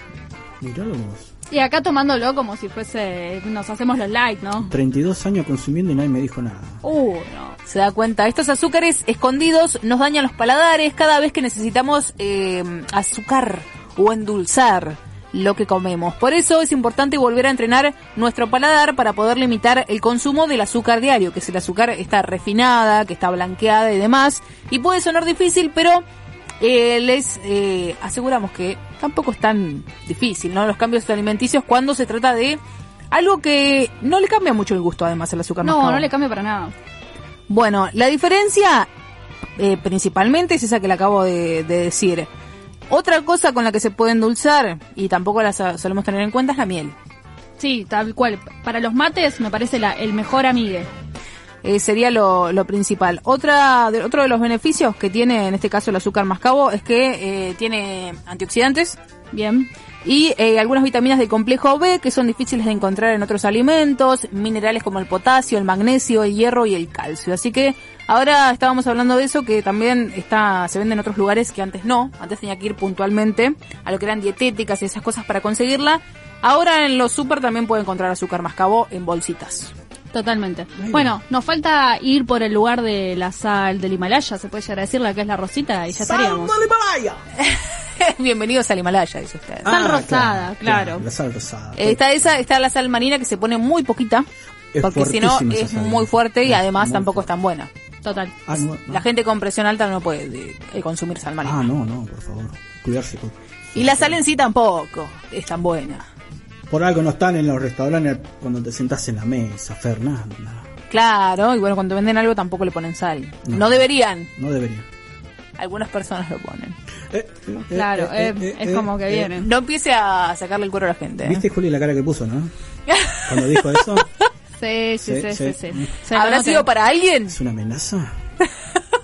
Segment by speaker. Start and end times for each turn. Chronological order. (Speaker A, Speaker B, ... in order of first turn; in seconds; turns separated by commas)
Speaker A: 0.6-1.3, Speaker B: 1.5-4.7, Speaker A: 4.7-6.8, Speaker B: 6.8-7.6, Speaker C: 7.7-26.0, Speaker C: 26.6-32.6, Speaker C: 33.1-36.1, Speaker B: 35.6-36.7, Speaker C: 37.5-38.9, Speaker C: 39.6-42.3, Speaker C: 42.9-47.0, Speaker B: 47.6-50.9, Speaker C: 51.6-59.0, Speaker B: 59.3-59.7, Speaker C: 60.0-79.7, Speaker B: 80.1-86.5, Speaker A: 80.8-81.2, Speaker A: 86.0-87.2, Speaker C: 87.4-89.7, Speaker A: 89.6-92.0, Speaker B: 89.7-91.0, Speaker C: 91.8-94.3, Speaker A: 94.7-97.3, Speaker C: 94.8-97.7, Speaker B: 98.0-98.3, Speaker A: 98.5-99.0, Speaker C: 98.9-101.6, Speaker A: 101.4-104.2, Speaker C: 103.8-106.1, Speaker A: 106.7-110.7, Speaker C: 110.9-114.3, Speaker A: 113.5-114.9, Speaker C: 115.6-116.8, Speaker A: 117.1-119.4, Speaker B: 117.7-119.5, Speaker C: 119.4-121.4, Speaker A: 121.2-122.5, Speaker C: 122.9-123.7, Speaker A: 123.2-124.1, Speaker B: 124.6-126.7, Speaker A: 125.0-126.0, Speaker C: 126.1-127.4, Speaker A: 127.3-128.2